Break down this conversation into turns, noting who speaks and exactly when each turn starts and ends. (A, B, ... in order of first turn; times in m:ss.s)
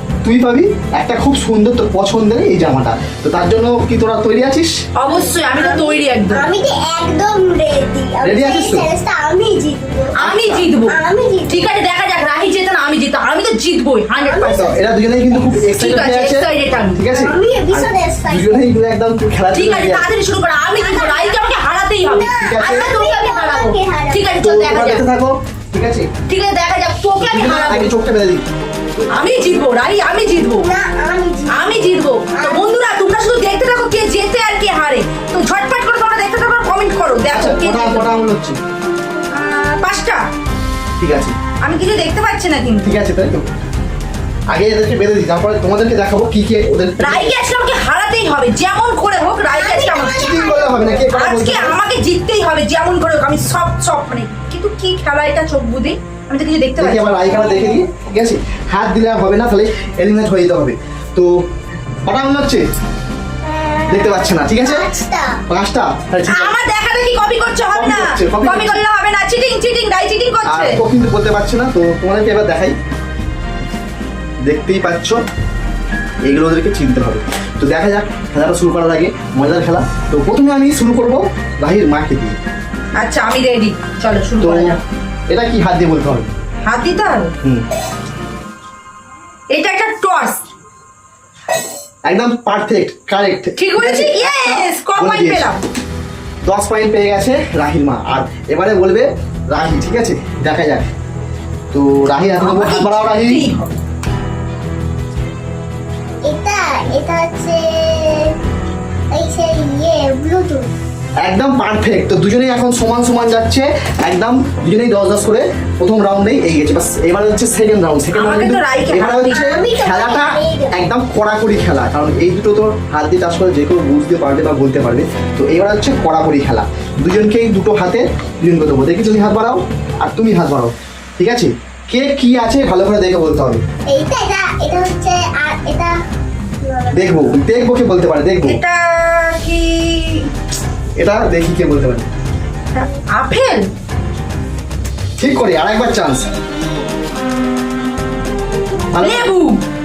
0:00.2-0:04.7 A
0:05.0-0:06.5 B
0:05.1-0:10.2 C
0:08.2-0:08.9 A
0:10.2-0:10.6 A
0:10.2-0:11.0 B
0:10.9-0:11.7 C
0:11.5-0:14.7 B
0:14.2-0:14.8 C
0:14.5-0:20.0 A
0:15.5-0:17.0 B
0:17.1-0:18.6 C
0:19.5-0:25.0 B
0:20.7-0:21.4 C
0:22.0-0:24.4 C
0:22.4-0:22.9 A
0:24.4-0:26.1 A
0:26.3-0:27.9 B
0:27.2-0:28.4 A
0:29.1-0:30.7 B
0:30.6-0:32.9 C
0:31.5-0:38.2 B
0:37.3-0:38.6 A
0:39.3-0:40.2 B
0:41.0-0:41.4 A
0:41.6-0:42.9 B
0:42.8-0:43.5 A
0:44.5-0:47.4 A
0:47.0-0:50.5 B
0:49.4-0:51.1 C
0:50.1-0:51.8 A
0:51.0-0:57.4 B
0:56.8-1:01.4 A
0:57.4-0:57.8 C
1:02.0-1:02.6 A
1:03.4-1:05.4 C
1:03.9-1:04.9 A
1:05.5-1:06.6 A
1:06.2-1:10.8 B
1:07.7-1:08.8 A
1:10.4-1:12.7 A
1:14.4-1:15.2 A
1:16.2-1:22.4 A
1:23.0-1:24.8 B
1:24.4-1:26.3 A
1:26.6-1:27.3 B
1:29.5-1:30.4 B
1:32.1-1:35.5 A
1:33.6-1:35.6 B
1:36.4-1:40.9 A
1:41.7-1:43.5 A
1:42.1-1:43.7 B
1:46.2-1:48.3 C
1:49.1-1:50.7 C
1:51.2-2:13.6 A
1:58.1-1:59.5 B
1:59.3-2:00.8 C
2:13.9-2:16.0 C
2:16.6-2:17.5 C
2:16.9-2:18.6 A
2:18.5-2:20.3 B
2:21.0-2:22.1 A
2:22.7-2:23.7 B
2:25.2-2:26.3 A
2:28.9-2:29.3 A
2:29.0-2:29.6 B